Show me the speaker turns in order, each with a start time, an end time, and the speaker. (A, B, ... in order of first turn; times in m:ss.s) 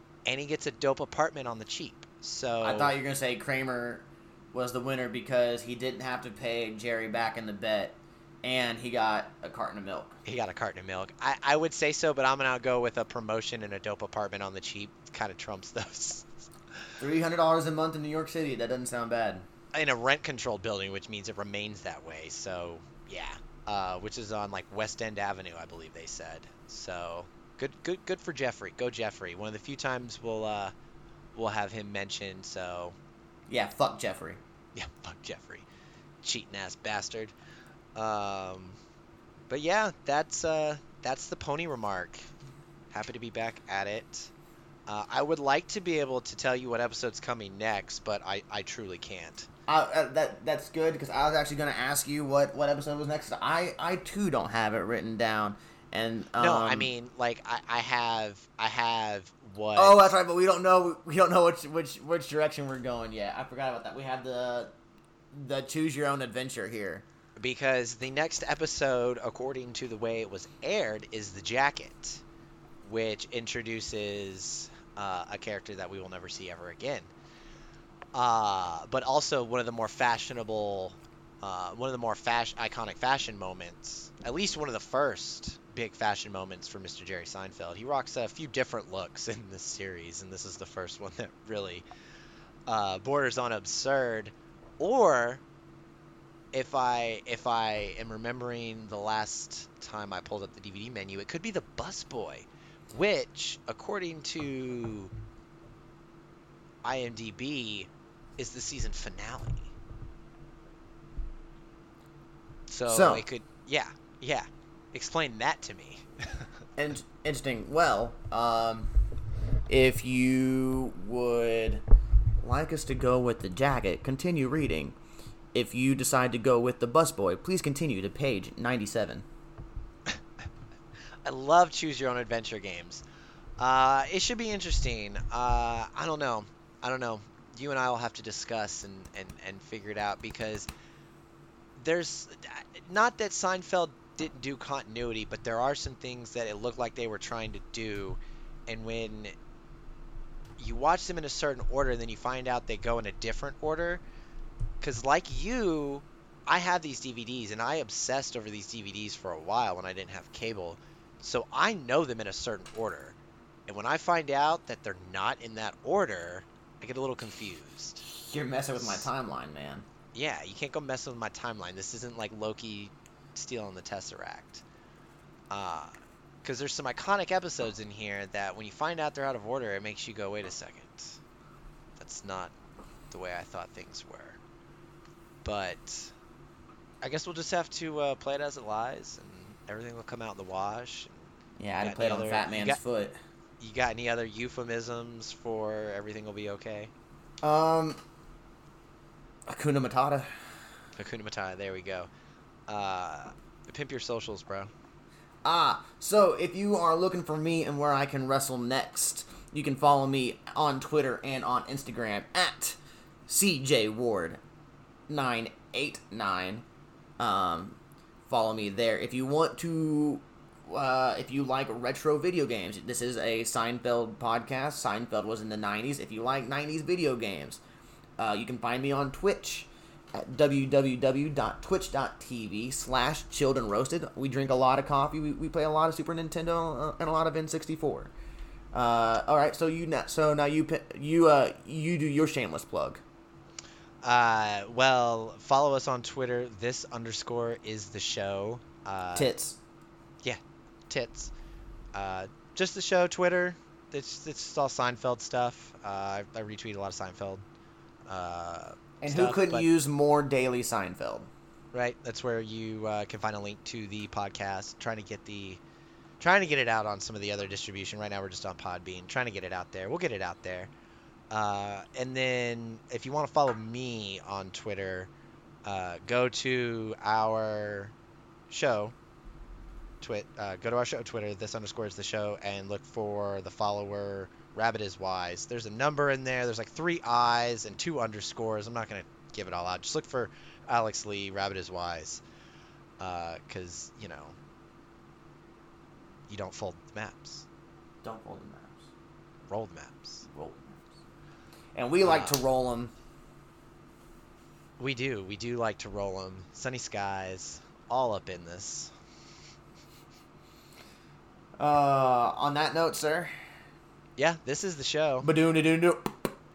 0:00.3-0:03.0 A
0:02.6-0:10.2 B
0:10.2-0:16.3 A
0:17.0-0:19.4 B
0:19.7-0:30.7 A
0:31.3-0:33.0 A
0:33.5-0:34.4 B
0:34.7-0:35.7 A
0:36.2-0:37.3 A
0:38.0-0:38.8 A
0:39.5-0:42.3 A
0:42.9-0:44.3 A
0:44.9-0:49.5 A
0:49.7-0:56.9 B
0:56.4-1:00.1 A
0:59.7-1:04.7 B
1:05.3-1:07.0 B
1:07.4-1:12.2 A
1:12.8-1:17.1 A
1:18.1-1:31.9 A
1:32.7-1:35.4 A
1:36.5-1:45.1 A
1:46.8-1:49.7 A
1:52.7-1:56.5 A
1:52.9-1:53.2 B
1:56.8-1:58.9 B
1:59.7-2:01.8 B
2:02.4-2:05.0 B
2:05.5-2:09.2 B
2:11.2-2:13.0 A
2:13.6-2:20.7 A
2:21.8-2:29.3 A
2:30.6-2:34.0 A
2:34.8-2:48.0 A
2:48.0-2:49.9 B
2:48.8-2:49.1 A
2:50.1-2:54.6 A
2:55.5-3:01.2 A
3:02.0-3:02.5 A
3:03.1-3:04.4 A
3:05.4-3:06.1 A
3:07.0-3:11.3 A
3:11.6-3:13.2 B
3:11.8-3:12.8 A
3:13.6-3:16.9 A
3:17.4-3:18.0 B
3:19.5-3:20.6 B
3:21.0-3:22.1 A
3:22.7-3:24.7 A
3:25.4-3:34.4 B
3:35.1-3:36.6 B
3:37.2-3:47.6 B
3:48.2-3:58.1 B
3:58.7-4:03.0 B
4:04.0-4:09.3 A
4:09.1-4:09.6 B
4:10.2-4:11.3 A
4:11.9-4:17.4 A
4:18.1-4:19.7 A
4:19.0-4:21.3 B
4:21.7-4:25.6 A
4:26.2-4:30.7 A
4:31.3-4:35.1 A
4:35.6-4:38.0 A
4:38.5-4:39.0 A
4:40.0-4:52.2 A
4:53.0-4:54.4 A
4:56.3-4:57.4 A
4:58.0-4:58.9 B
4:59.5-5:00.3 A
5:00.3-5:00.9 B
5:01.7-5:02.9 B
5:02.0-5:02.4 A
5:04.8-5:08.9 A
5:11.6-5:13.3 B
5:14.2-5:15.3 A
5:15.2-5:16.2 B